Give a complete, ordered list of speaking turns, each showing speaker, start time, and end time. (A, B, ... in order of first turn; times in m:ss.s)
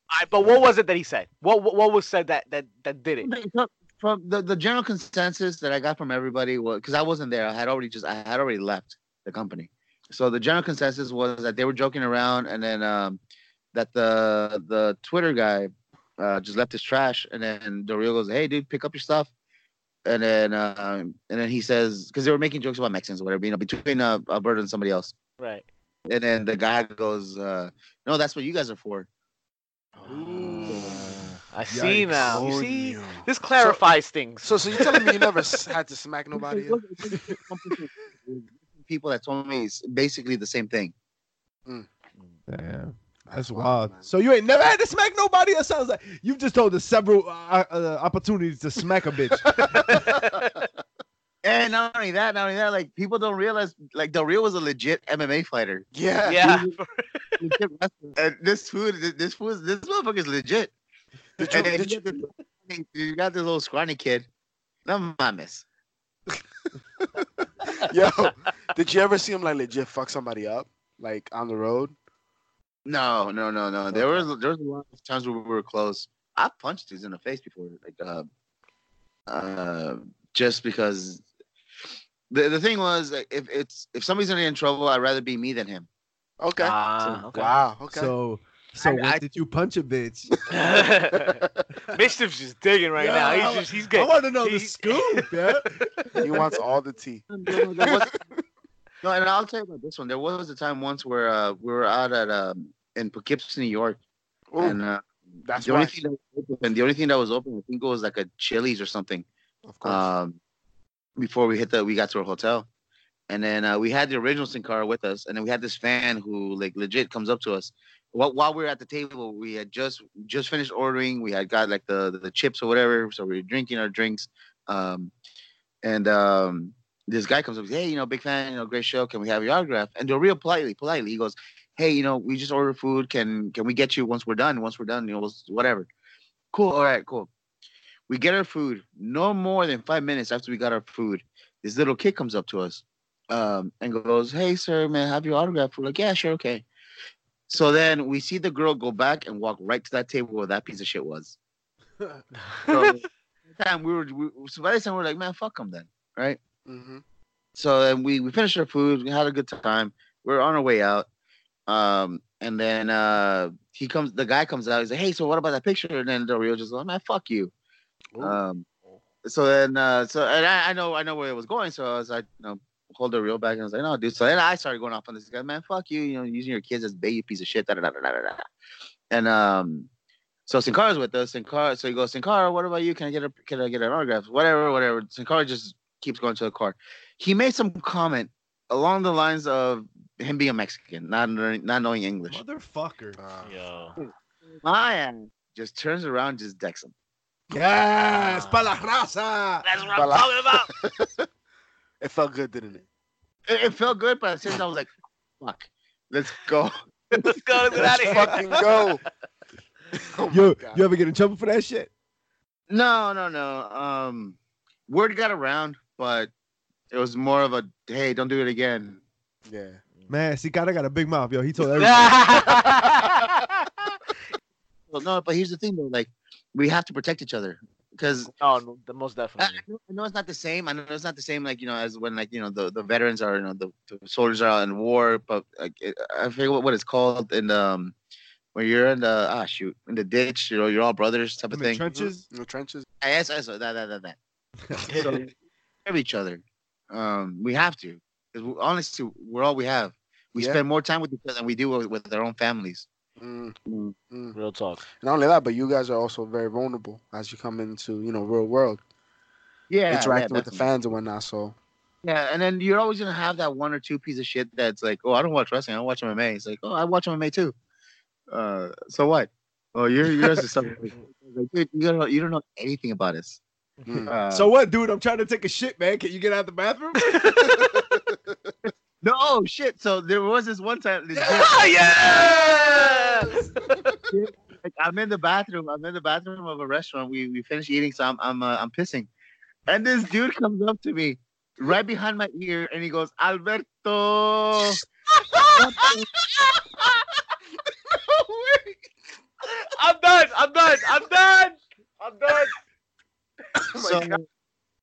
0:00.1-0:03.3 A
0:03.2-0:13.2 B
0:13.7-0:19.3 B
0:20.0-0:25.1 B
0:25.4-0:25.7 A
0:26.0-0:29.1 B
0:29.9-0:31.0 C
0:30.1-0:35.2 A
0:30.6-0:31.2 B
0:31.7-0:32.4 D
0:32.2-0:33.8 C
0:34.4-0:37.4 C
0:36.3-0:40.9 B
0:42.5-0:49.5 D
0:43.2-0:44.1 C
0:49.6-0:50.0 A
0:50.1-0:50.4 C
0:51.4-0:55.9 B
0:55.9-0:56.4 C
0:56.2-0:57.5 A
0:56.4-0:56.7 B
0:57.4-1:00.7 B
1:01.4-1:02.2 C
1:01.4-1:04.2 B
1:04.8-1:05.6 B
1:07.8-1:11.9 C
1:12.8-1:18.3 B
1:13.9-1:14.2 C
1:19.3-1:21.2 B
1:22.3-1:25.9 B
1:26.4-1:28.1 C
1:26.6-1:27.5 A
1:27.9-1:30.4 D
1:28.8-1:29.2 B
1:30.5-1:35.2 A
1:33.0-1:36.1 D
1:36.2-1:38.4 C
1:37.3-1:38.2 B
1:39.0-1:44.0 B
1:44.5-1:44.8 C
1:44.6-1:45.0 B
1:45.4-1:46.0 C
1:45.6-1:49.2 B
1:49.6-1:50.1 C
1:49.8-1:50.4 B
1:51.2-1:52.7 B
1:53.3-2:05.1 B
2:05.8-2:15.9 B
2:16.5-2:17.3 B
2:18.1-2:26.6 B
2:27.5-2:31.4 B
2:32.7-2:36.4 B
2:36.6-2:37.0 C
2:37.6-2:41.0 B
2:41.7-2:47.5 B
2:48.1-2:48.4 C
2:48.2-2:48.6 B
2:49.2-2:58.4 B
2:59.1-2:59.9 B
3:00.5-3:12.4 B
3:12.3-3:13.2 D
3:13.2-3:13.6 C
3:13.4-3:14.0 A
3:14.0-3:16.9 B
3:17.5-3:19.6 D
3:18.2-3:18.7 A
3:19.6-3:20.7 A
3:19.9-3:21.2 C
3:22.0-3:22.8 C
3:23.5-3:27.4 B
3:27.1-3:28.6 A
3:27.8-3:29.0 C
3:30.0-3:30.8 C
3:30.3-3:31.9 D
3:32.7-3:36.3 B
3:36.9-3:39.0 B
3:39.5-3:39.8 C
3:40.1-3:42.2 D
3:41.8-3:43.3 A
3:44.9-3:48.3 B
3:48.3-3:49.6 A
3:49.4-3:57.9 B
3:58.5-4:01.8 B
4:01.5-4:02.2 D
4:01.9-4:02.8 C
4:03.0-4:04.2 B
4:04.7-4:05.1 D
4:04.9-4:05.1 A
4:04.9-4:05.3 B
4:05.8-4:12.9 B
4:10.3-4:10.6 C
4:13.2-4:13.6 C
4:13.6-4:13.9 B
4:14.1-4:14.4 C
4:14.3-4:14.8 A
4:15.0-4:18.8 C
4:19.7-4:20.6 B
4:19.9-4:21.6 C
4:22.0-4:27.5 B
4:28.3-4:33.4 B
4:33.8-4:34.1 C
4:34.0-4:34.5 B
4:34.3-4:37.7 D
4:37.0-4:37.6 A
4:37.8-4:38.1 C
4:38.7-4:41.6 B
4:41.1-4:44.0 C
4:41.2-4:43.8 A
4:44.1-4:49.1 B
4:49.7-4:54.8 B
4:55.2-4:56.9 A
4:55.5-4:56.1 B
4:59.5-5:02.6 A
5:03.7-5:04.2 C
5:03.8-5:04.2 B